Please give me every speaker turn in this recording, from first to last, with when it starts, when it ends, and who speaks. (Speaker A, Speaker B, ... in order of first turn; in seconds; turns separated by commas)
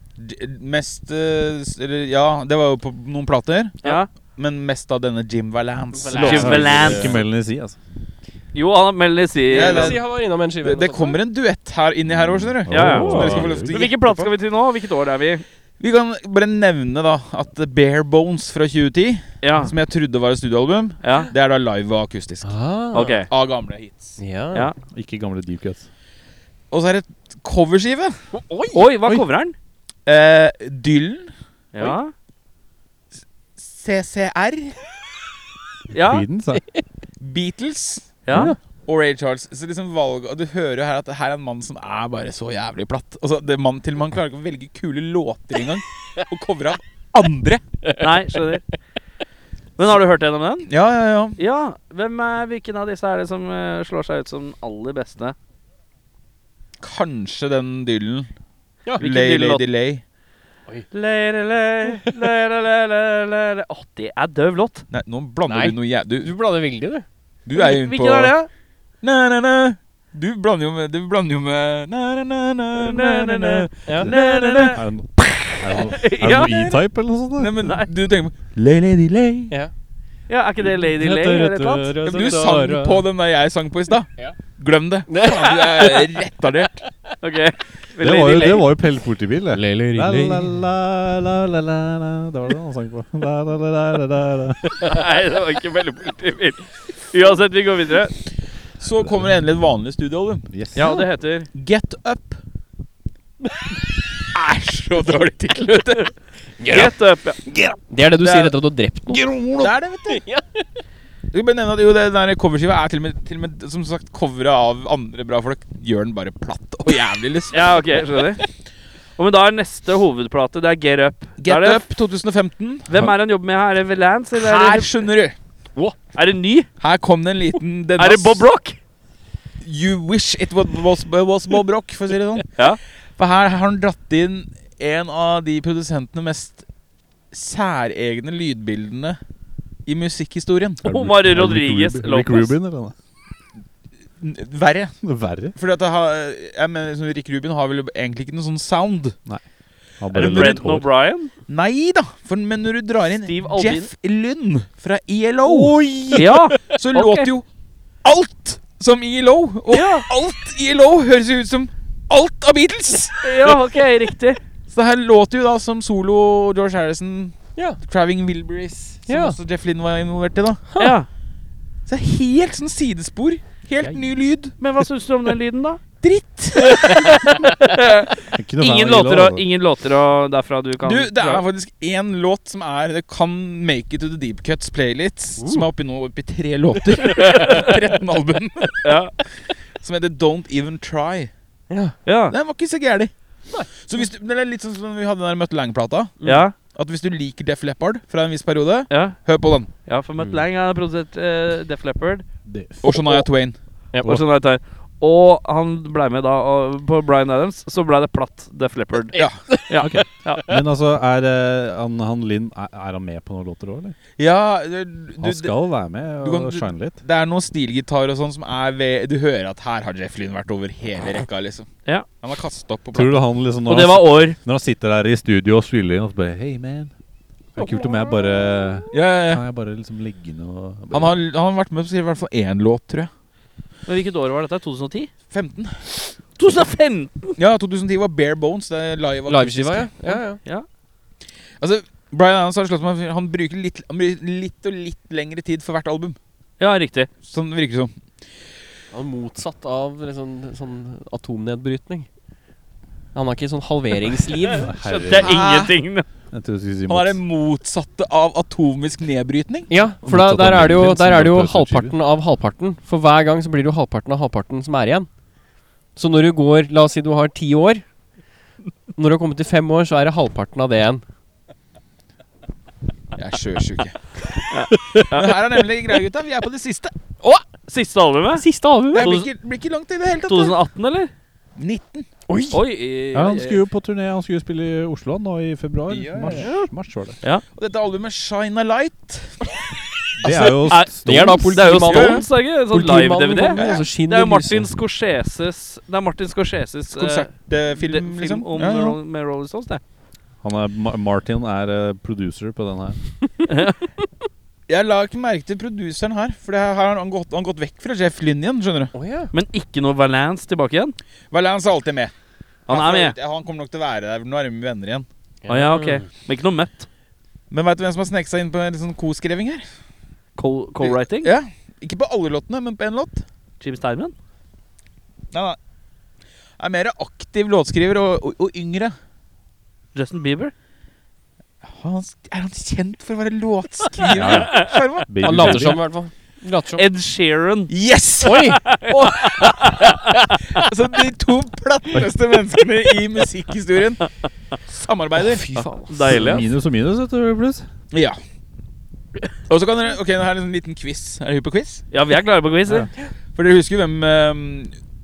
Speaker A: 0.2-7.1, Speaker B: 5.9-7.1, Speaker C: 6.1-7.2, Speaker D: 6.3-7.8, Speaker C: 8.5-10.0, Speaker B: 9.5-11.2, Speaker A: 9.5-10.1, Speaker A: 10.6-14.3, Speaker D: 12.1-13.8, Speaker C: 12.7-15.4, Speaker B: 12.8-13.5, Speaker A: 15.8-22.5, Speaker C: 19.4-19.7, Speaker C: 21.0-21.3, Speaker B: 22.4-23.2, Speaker C: 22.9-23.3, Speaker A: 23.3-24.2, Speaker B: 24.2-24.7, Speaker D: 24.9-25.9, Speaker A: 26.7-28.1, Speaker B: 28.3-28.9, Speaker C: 28.7-29.5, Speaker A: 30.1-32.0, Speaker C: 31.7-32.1, Speaker A: 33.6-34.8, Speaker C: 35.9-36.2, Speaker D: 36.0-36.6, Speaker A: 37.2-47.6, Speaker C: 38.2-38.5, Speaker B: 38.3-38.6, Speaker C: 48.0-48.6, Speaker C: 49.8-50.7, Speaker A: 50.7-51.4, Speaker C: 51.4-55.3, Speaker A: 56.8-58.3, Speaker A: 59.0-60.0, Speaker C: 59.0-59.6, Speaker C: 60.9-64.8, Speaker A: 64.9-66.3, Speaker B: 65.5-67.0, Speaker A: 67.5-68.3, Speaker C: 67.5-68.5, Speaker A: 69.0-74.8, Speaker C: 72.7-76.8, Speaker B: 73.9-74.1, Speaker D: 74.7-77.6, Speaker A: 76.3-76.7, Speaker A: 77.4-79.5, Speaker C: 77.6-77.9, Speaker C: 80.3-82.4, Speaker D: 80.9-82.0, Speaker B: 81.0-83.0, Speaker A: 82.0-86.8, Speaker B: 85.1-86.0, Speaker C: 85.5-85.9, Speaker C: 87.2-88.7, Speaker D: 88.0-94.7, Speaker B: 89.5-90.6, Speaker C: 94.8-98.1, Speaker A: 98.8-100.5, Speaker D: 100.5-101.0, Speaker C: 100.7-101.5, Speaker A: 101.5-102.4, Speaker A: 104.2-106.1, Speaker B: 106.6-106.9, Speaker C: 106.7-107.4, Speaker A: 107.5-108.5, Speaker B: 107.9-110.7, Speaker A: 109.1-110.2, Speaker A: 111.3-118.2, Speaker C: 117.5-118.4, Speaker C: 119.2-121.8, Speaker A: 121.4-122.9, Speaker C: 122.9-124.9, Speaker A: 124.3-125.3, Speaker C: 126.1-126.7, Speaker A: 126.8-128.4, Speaker C: 128.0-128.8, Speaker A: 129.6-132.6, Speaker A: 133.2-136.6, Speaker A: 137.3-139.2, Speaker A: 139.8-140.8, Speaker D: 140.8-142.9, Speaker C: 140.8-142.5, Speaker A: 144.2-144.9, Speaker D: 145.0-145.6, Speaker A: 145.5-149.2, Speaker D: 150.0-150.9, Speaker C: 150.1-151.3, Speaker A: 150.1-150.6, Speaker A: 151.5-157.4, Speaker C: 153.2-153.9, Speaker B: 155.4-156.4, Speaker C: 156.1-157.3, Speaker A: 158.0-163.6, Speaker C: 159.7-160.1, Speaker C: 163.2-164.4, Speaker A: 164.7-170.6, Speaker B: 169.1-169.4, Speaker C: 170.8-171.1, Speaker A: 171.9-174.5, Speaker C: 174.6-175.8, Speaker A: 176.0-177.4, Speaker C: 176.6-181.4, Speaker D: 178.3-179.4, Speaker A: 180.8-188.9, Speaker B: 185.4-185.6, Speaker C: 187.2-187.7, Speaker C: 188.8-189.1, Speaker A: 189.8-191.3, Speaker B: 191.7-191.9, Speaker C: 192.0-192.3, Speaker A: 192.3-193.1, Speaker A: 193.7-199.7, Speaker C: 196.2-196.5, Speaker C: 198.9-199.2, Speaker C: 199.8-202.2, Speaker D: 202.4-202.9, Speaker A: 202.8-203.6, Speaker C: 204.0-210.5, Speaker B: 209.1-209.8, Speaker A: 209.1-209.4, Speaker D: 209.8-213.9, Speaker A: 214.2-215.5, Speaker D: 215.2-217.0, Speaker A: 216.2-221.7, Speaker A: 222.2-223.2, Speaker D: 222.9-226.9, Speaker C: 223.7-224.4, Speaker D: 227.6-231.2, Speaker B: 227.6-227.9, Speaker A: 228.9-229.4, Speaker A: 230.9-233.1, Speaker C: 233.8-235.1, Speaker A: 235.3-235.9, Speaker C: 236.3-237.3, Speaker A: 237.4-240.2, Speaker B: 239.3-240.4, Speaker A: 241.6-246.2, Speaker C: 246.6-247.1, Speaker A: 247.2-247.9, Speaker B: 248.9-252.1, Speaker B: 253.1-254.7, Speaker C: 254.5-256.1, Speaker D: 254.6-255.4, Speaker A: 255.1-255.7, Speaker D: 256.3-257.2, Speaker A: 256.9-259.7, Speaker B: 259.7-265.1, Speaker D: 260.0-261.9, Speaker B: 265.9-267.8, Speaker B: 268.9-271.0, Speaker A: 273.1-274.0, Speaker C: 274.5-275.4, Speaker B: 274.8-275.1, Speaker A: 275.1-276.9, Speaker C: 277.5-278.4, Speaker B: 278.4-279.1, Speaker A: 278.9-280.6, Speaker C: 279.0-279.3, Speaker C: 280.3-281.1, Speaker A: 281.6-282.1, Speaker B: 282.3-282.6, Speaker C: 282.5-283.6, Speaker D: 283.1-287.2, Speaker A: 285.9-286.5, Speaker A: 287.5-289.5, Speaker D: 290.2-291.5, Speaker A: 290.2-290.7, Speaker C: 290.6-299.8, Speaker B: 291.0-294.7, Speaker A: 291.7-292.2, Speaker A: 293.5-293.9, Speaker A: 296.9-299.0, Speaker D: 300.4-303.0, Speaker C: 303.5-303.8, Speaker A: 304.7-308.9, Speaker B: 308.9-309.3, Speaker C: 309.3-310.9, Speaker A: 311.3-312.1, Speaker C: 312.7-313.1, Speaker A: 312.7-315.1, Speaker B: 315.4-316.0, Speaker C: 315.5-316.9, Speaker A: 317.5-319.6, Speaker C: 320.4-321.3, Speaker A: 320.8-323.2, Speaker C: 323.6-324.1, Speaker A: 325.3-325.6, Speaker A: 326.6-328.9, Speaker C: 329.9-330.5, Speaker A: 331.6-335.7, Speaker C: 334.0-334.7, Speaker D: 334.1-335.8, Speaker B: 335.2-336.8, Speaker C: 336.8-337.7, Speaker A: 337.7-338.5, Speaker B: 338.2-340.2, Speaker C: 338.4-340.6, Speaker A: 340.5-344.1, Speaker A: 344.7-345.5, Speaker B: 345.2-346.4, Speaker C: 345.9-346.4, Speaker D: 346.1-347.7, Speaker A: 347.9-348.2, Speaker A: 349.5-351.8, Speaker C: 351.9-352.9, Speaker A: 353.3-354.7